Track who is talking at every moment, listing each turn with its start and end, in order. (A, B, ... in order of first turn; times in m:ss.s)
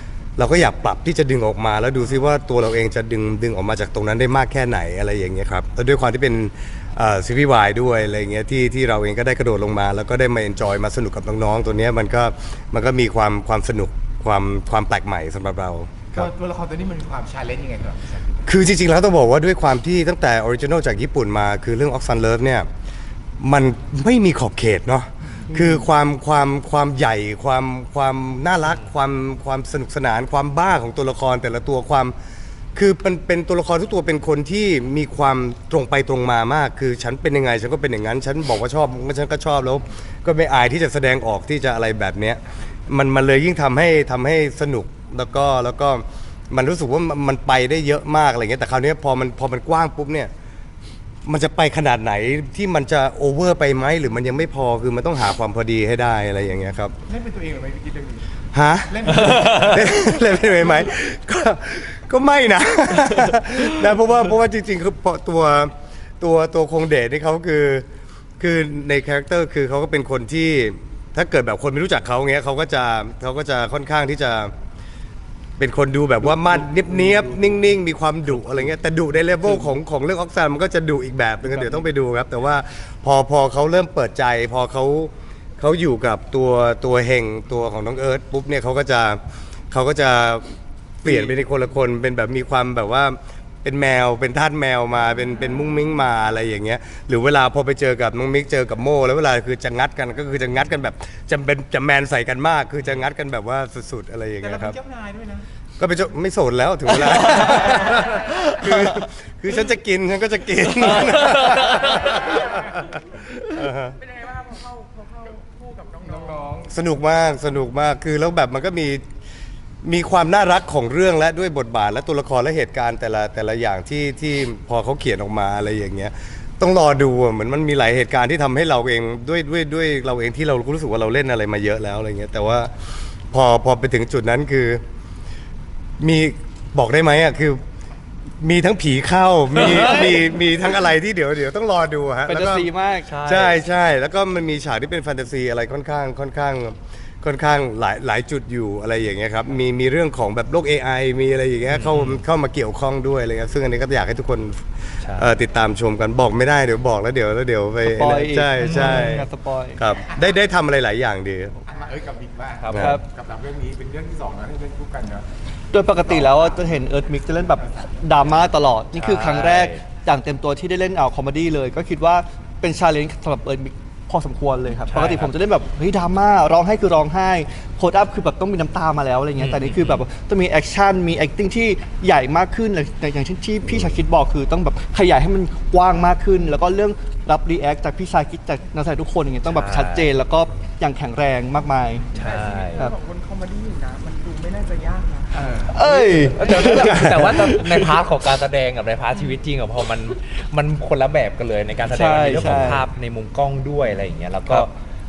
0:00.4-0:16.3 A
0:16.1-0:18.4 B
0:18.5-0:22.7 A
0:23.4-0:32.2 A
0:28.7-0:28.9 C
0:32.8-0:50.3 A
0:51.3-0:57.0 A
0:57.1-0:58.3 B
0:58.5-1:07.9 A
0:58.9-1:00.0 B
0:59.2-0:59.6 C
1:08.4-1:14.5 A
1:15.6-1:44.8 A
1:16.2-1:17.4 D
1:21.4-1:21.9 D
1:44.4-1:45.4 B
1:45.8-1:52.8 A
1:48.6-1:49.0 D
1:50.9-1:52.1 C
1:53.4-1:54.0 A
1:54.0-1:56.5 E
1:56.0-1:56.7 B
1:56.7-1:59.0 A
1:59.8-2:12.7 A
2:13.3-2:14.8 A
2:16.0-2:17.6 A
2:18.4-2:22.7 A
2:19.6-2:20.2 C
2:22.3-2:23.2 D
2:23.1-2:23.6 C
2:23.2-2:41.6 A
2:31.7-2:32.2 C
2:35.0-2:35.3 C
2:37.8-2:39.8 D
2:38.6-2:39.2 C
2:41.6-2:45.2 B
2:42.6-2:42.9 C
2:42.7-2:43.0 A
2:42.8-2:43.0 D
2:45.7-3:12.1 D
2:48.9-2:49.8 C
2:54.9-2:55.3 C
2:59.4-3:00.0 C
3:09.5-3:10.1 C
3:12.1-3:12.9 C
3:12.3-3:15.4 E
3:15.3-3:15.8 B
3:15.6-3:17.9 D
3:16.3-3:24.7 C
3:16.8-3:17.3 A
3:21.9-3:22.8 D